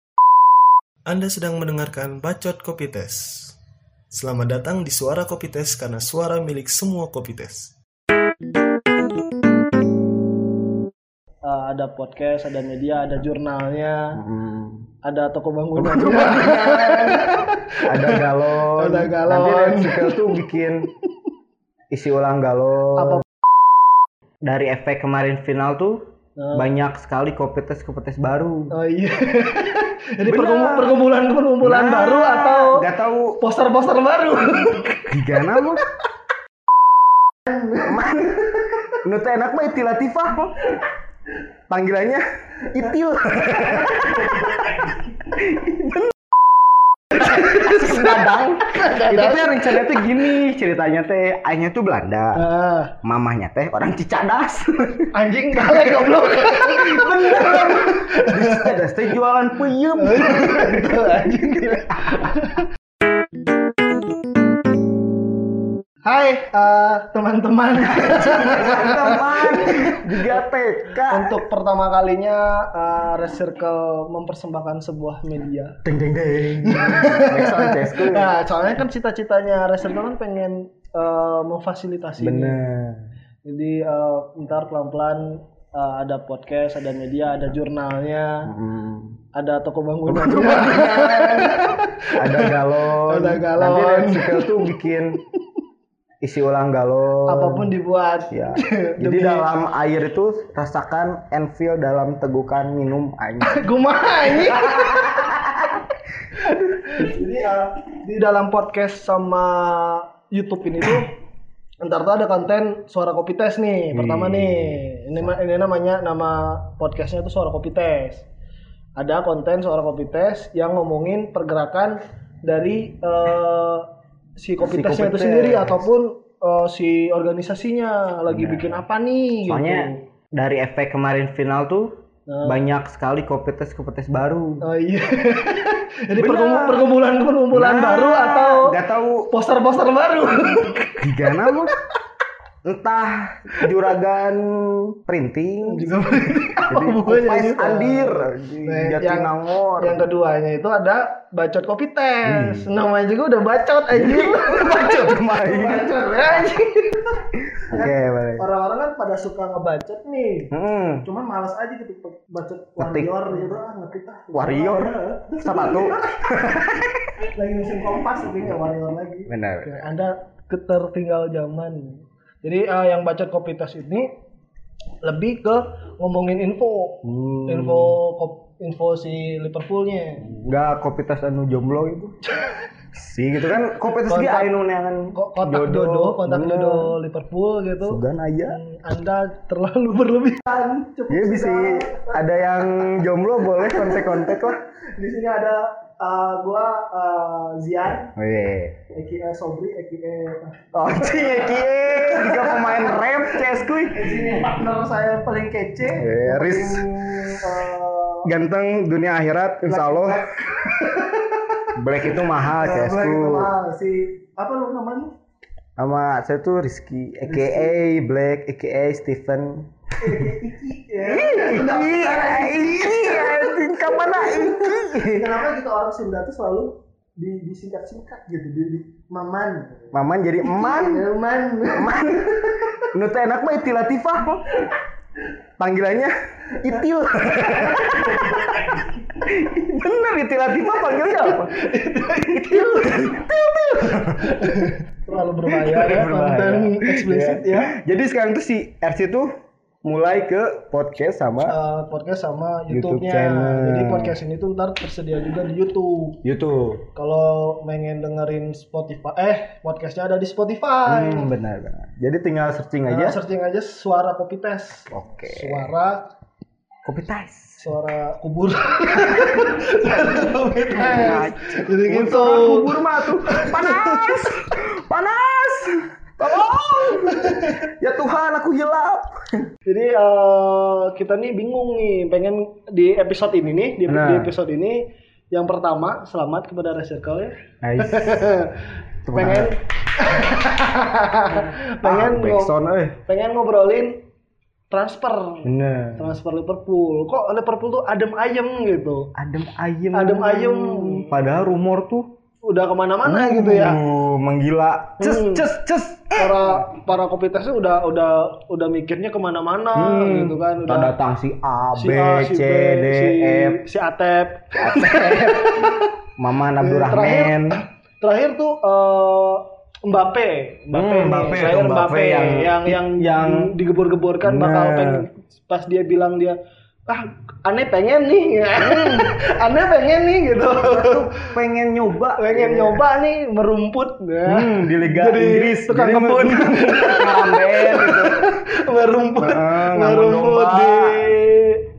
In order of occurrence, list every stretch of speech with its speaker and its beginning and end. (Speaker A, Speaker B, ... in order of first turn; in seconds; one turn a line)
Speaker A: 1.1-3.5
Speaker A: 4.1-7.7
Speaker B: 11.4-14.2
Speaker C: 14.1-14.9
Speaker B: 15.0-20.6
Speaker C: 15.8-20.9
Speaker C: 21.9-23.2
Speaker B: 22.9-23.2
Speaker C: 24.4-26.0
Speaker B: 26.4-26.7
Speaker C: 26.5-28.7
Speaker B: 28.7-32.9
Speaker C: 30.2-31.0
Speaker C: 31.6-33.4
Speaker B: 33.4-35.8
Speaker C: 35.1-35.8
Speaker C: 37.8-40.7
Speaker C: 41.7-46.1
Speaker C: 47.1-52.4
Speaker B: 48.7-49.7
Speaker B: 52.3-52.9
Speaker C: 53.0-62.3
Speaker B: 55.1-58.8
Speaker B: 60.0-62.6
Speaker B: 66.0-70.4
Speaker C: 67.8-71.4
Speaker B: 71.1-75.8
Speaker C: 75.8-78.3
Speaker B: 76.6-82.6
Speaker C: 82.2-83.0
Speaker B: 83.4-88.5
Speaker C: 88.4-89.2
Speaker B: 89.3-94.9
Speaker C: 90.0-95.2
Speaker C: 96.2-97.7
Speaker B: 97.3-99.5
Speaker C: 98.3-103.6
Speaker B: 103.4-105.2
Speaker C: 104.3-105.8
Speaker B: 106.4-111.1
Speaker B: 111.8-118.2
Speaker C: 113.9-115.3
Speaker B: 119.0-130.0
Speaker C: 124.6-125.8
Speaker C: 128.3-128.8
Speaker C: 129.4-131.9
Speaker B: 132.3-132.6
Speaker C: 132.4-134.6
Speaker B: 134.6-138.8
Speaker C: 136.1-136.9
Speaker C: 137.5-139.3
Speaker B: 139.3-141.6
Speaker C: 141.0-141.7
Speaker C: 142.6-150.0
Speaker B: 145.6-166.2
Speaker C: 152.2-152.7
Speaker C: 153.9-156.4
Speaker C: 157.5-158.4
Speaker C: 160.5-161.0
Speaker C: 162.8-163.3
Speaker C: 164.3-167.1
Speaker B: 167.2-174.1
Speaker C: 169.3-169.7
Speaker B: 175.0-180.2
Speaker C: 177.0-177.9
Speaker C: 180.2-182.1
Speaker B: 182.2-182.7
Speaker C: 182.9-186.9
Speaker B: 184.1-184.6
Speaker B: 185.1-193.0
Speaker C: 187.8-188.6
Speaker C: 191.1-194.6
Speaker B: 193.6-198.1
Speaker C: 198.2-198.8
Speaker B: 198.9-208.3
Speaker C: 200.7-204.2
Speaker C: 205.8-207.5
Speaker C: 208.2-210.2
Speaker B: 209.7-215.1
Speaker C: 211.8-213.5
Speaker C: 215.8-220.1
Speaker B: 217.2-217.7
Speaker B: 220.0-229.9
Speaker C: 221.0-225.3
Speaker C: 229.9-231.1
Speaker B: 230.4-232.8
Speaker C: 231.7-234.7
Speaker C: 235.6-241.5
Speaker B: 237.5-238.9
Speaker B: 241.1-242.9
Speaker C: 242.1-244.7
Speaker B: 244.2-247.7
Speaker C: 245.5-249.3
Speaker C: 249.8-251.6
Speaker B: 251.4-256.2
Speaker C: 252.7-254.1
Speaker C: 256.2-256.8
Speaker B: 256.9-261.3
Speaker C: 260.9-263.2
Speaker B: 262.9-266.1
Speaker C: 264.9-265.7
Speaker C: 266.8-267.6
Speaker B: 267.6-274.2
Speaker C: 270.7-279.5
Speaker B: 277.1-277.5
Speaker B: 279.6-294.0
Speaker C: 283.9-284.3
Speaker C: 287.6-288.3
Speaker C: 289.0-289.5
Speaker C: 291.8-292.9
Speaker B: 294.7-299.1
Speaker C: 295.4-296.1
Speaker C: 299.2-302.1
Speaker B: 299.9-301.3
Speaker B: 302.4-303.8
Speaker C: 303.0-306.6
Speaker B: 305.0-305.5
Speaker B: 306.2-310.9
Speaker C: 309.8-313.6
Speaker B: 311.8-315.9
Speaker C: 314.6-317.6
Speaker B: 316.6-331.3
Speaker C: 320.7-323.5
Speaker C: 324.2-325.1
Speaker C: 328.6-329.1
Speaker C: 330.6-332.8
Speaker B: 332.2-341.6
Speaker C: 334.2-338.2
Speaker C: 339.2-341.1